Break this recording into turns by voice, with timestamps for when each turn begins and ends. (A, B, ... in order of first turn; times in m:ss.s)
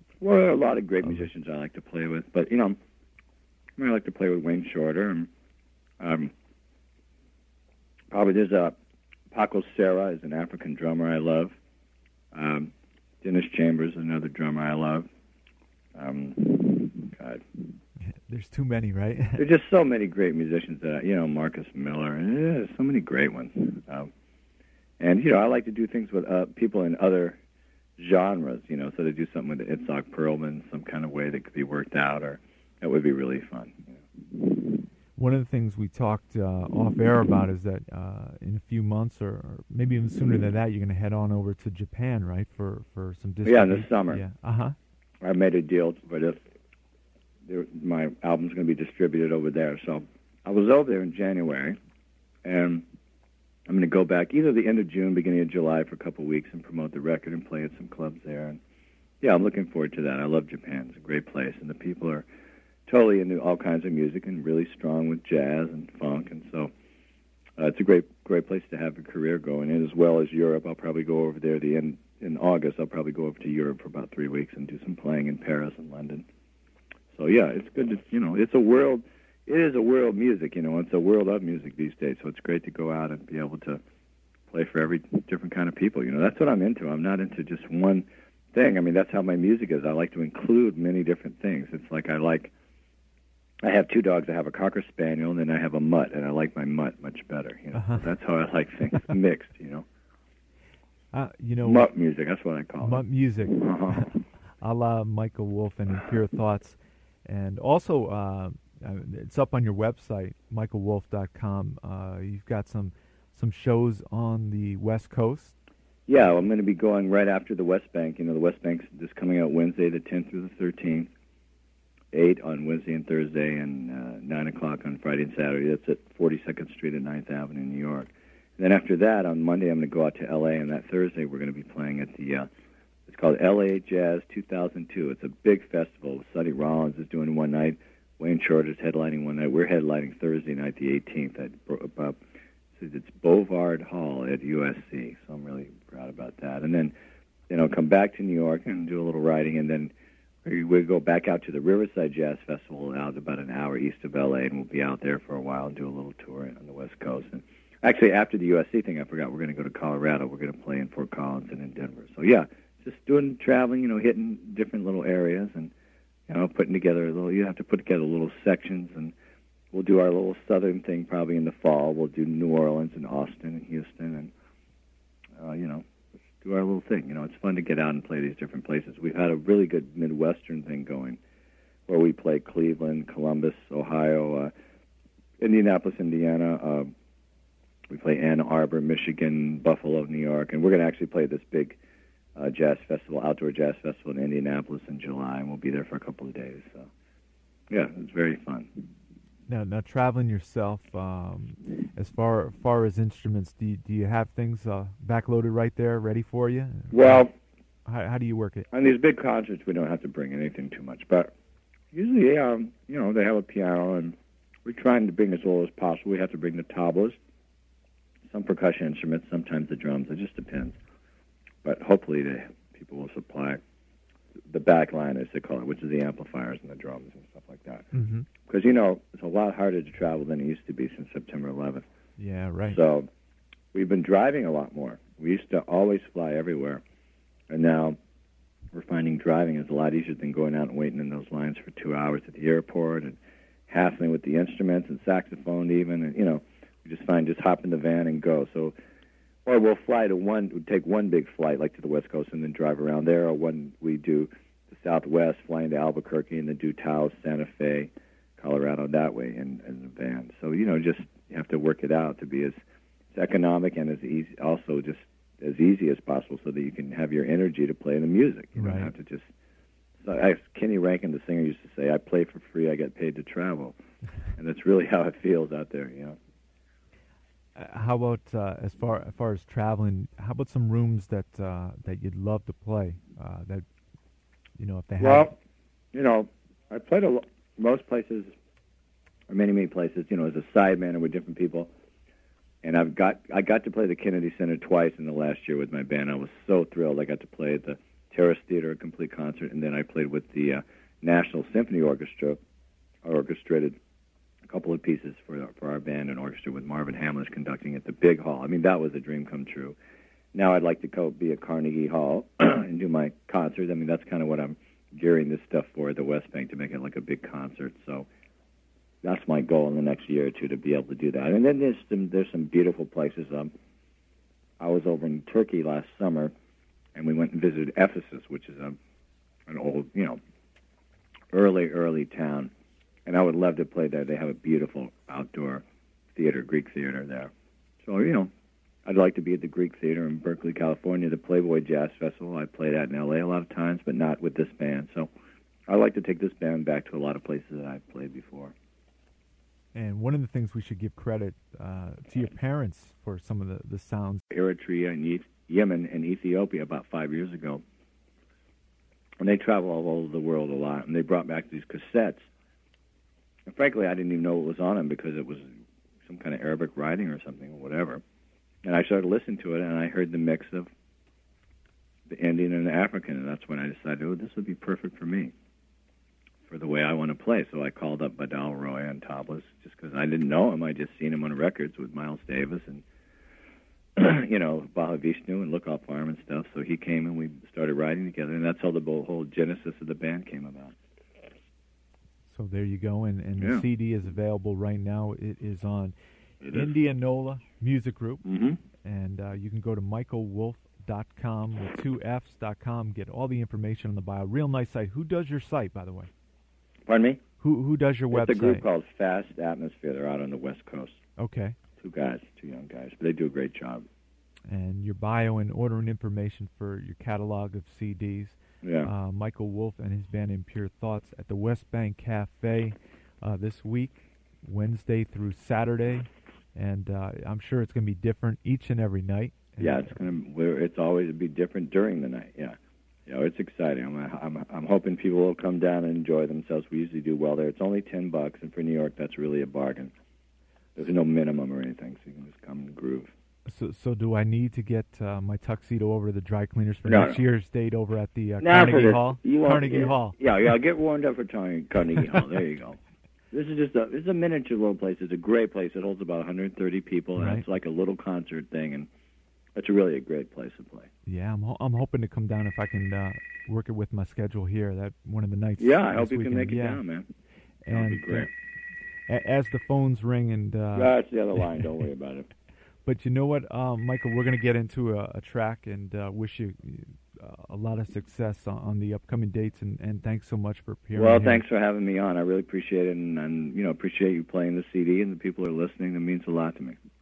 0:00.2-0:02.8 A
0:03.8-0:05.3 A
0:06.0-0:06.3 A
0:08.1-0:08.8 A
0:09.3-0:11.5 A
0:12.3-0:12.7 A
0:13.2-0:15.1 A
0:15.9-0:17.7 A
0:18.1-0:19.4 B
0:19.4-0:24.1 A
0:25.0-0:27.4 A
0:28.0-0:34.8 A
0:35.2-0:44.7 B
0:43.4-0:44.2 A
0:45.2-0:46.4 A
0:47.4-0:51.8 A
0:52.4-0:52.8 A
0:53.7-0:58.6 A
0:59.2-1:02.3 A
1:02.9-1:06.7 A
1:07.6-1:16.3 A
1:17.1-1:23.8 A
1:24.5-1:32.5 A
1:33.6-1:39.8 A
1:37.7-1:38.0 B
1:41.1-1:41.9 B
1:41.6-1:44.1 A
1:42.8-1:55.6 B
1:56.1-2:01.1 A
2:02.1-2:12.5 A
2:13.1-2:22.2 A
2:22.8-2:26.9 A
2:27.5-2:29.9 A
2:30.4-2:45.7 A
2:46.3-2:49.1 A
2:49.7-2:54.3 A
2:55.4-2:55.8 A
2:56.4-3:01.2 A
3:01.9-3:04.5 A
3:05.4-3:06.9 A
3:07.9-3:11.8 A
3:12.4-3:16.9 A
3:17.7-3:18.9 A
3:19.5-3:27.3 B
3:26.9-3:27.3 A
3:27.8-3:28.7 B
3:28.7-3:31.3 A
3:31.9-3:37.2 A
3:38.3-3:40.8 A
3:41.6-3:43.6 A
3:44.5-3:47.9 A
3:47.9-3:48.3 B
3:48.4-3:51.8 A
3:52.2-3:52.8 B
3:52.7-3:53.1 A
3:53.7-3:56.8 A
3:57.5-3:58.0 A
3:58.7-4:03.2 A
4:03.7-4:08.7 A
4:09.4-4:22.6 A
4:23.1-4:29.3 A
4:28.6-4:28.9 B
4:30.0-4:33.7 A
4:34.4-4:36.2 A
4:37.6-4:43.6 B
4:44.6-4:45.3 B
4:45.0-4:45.3 A
4:45.9-4:48.3 A
4:49.3-4:51.7 A
4:52.6-5:02.4 A
5:03.0-5:03.8 A
5:04.5-5:09.8 A
5:10.3-5:18.1 A
5:19.0-5:23.5 A
5:24.6-5:26.3 A
5:26.9-5:28.8 A
5:29.5-5:30.2 A
5:31.3-5:32.5 A
5:33.0-5:35.6 A
5:36.1-5:37.3 A
5:37.8-5:38.3 A
5:38.8-5:45.1 A
5:45.7-5:48.5 A
5:49.7-5:54.2 B
5:54.3-5:57.6 A
5:59.2-6:02.2 A
6:03.5-6:05.5 A
6:06.0-6:08.0 A
6:08.6-6:10.7 A
6:12.1-6:15.3 A
6:16.5-6:22.8 A
6:24.0-6:30.7 A
6:32.3-6:35.9 B
6:33.4-6:33.6 A
6:36.4-6:36.7 A
6:36.5-6:38.2 B
6:38.2-6:38.6 A
6:38.8-6:46.1 B
6:46.9-6:47.2 A
6:47.4-6:48.6 B
6:48.1-6:51.0 A
6:51.2-6:51.6 B
6:51.8-6:53.8 A
6:54.5-7:10.1 B
6:58.6-6:58.9 A
7:09.6-7:19.9 A
7:20.8-7:23.1 A
7:23.4-7:30.2 B
7:26.8-7:27.2 A
7:28.4-7:32.8 A
7:33.3-7:38.9 A
7:37.2-7:37.4 B
7:39.6-7:40.9 A
7:41.0-7:46.8 B
7:45.6-7:47.1 A
7:47.6-7:48.3 B
7:47.7-7:48.3 A
7:49.1-7:50.9 B
7:50.7-7:52.3 A
7:52.8-8:01.4 B
8:00.9-8:06.8 A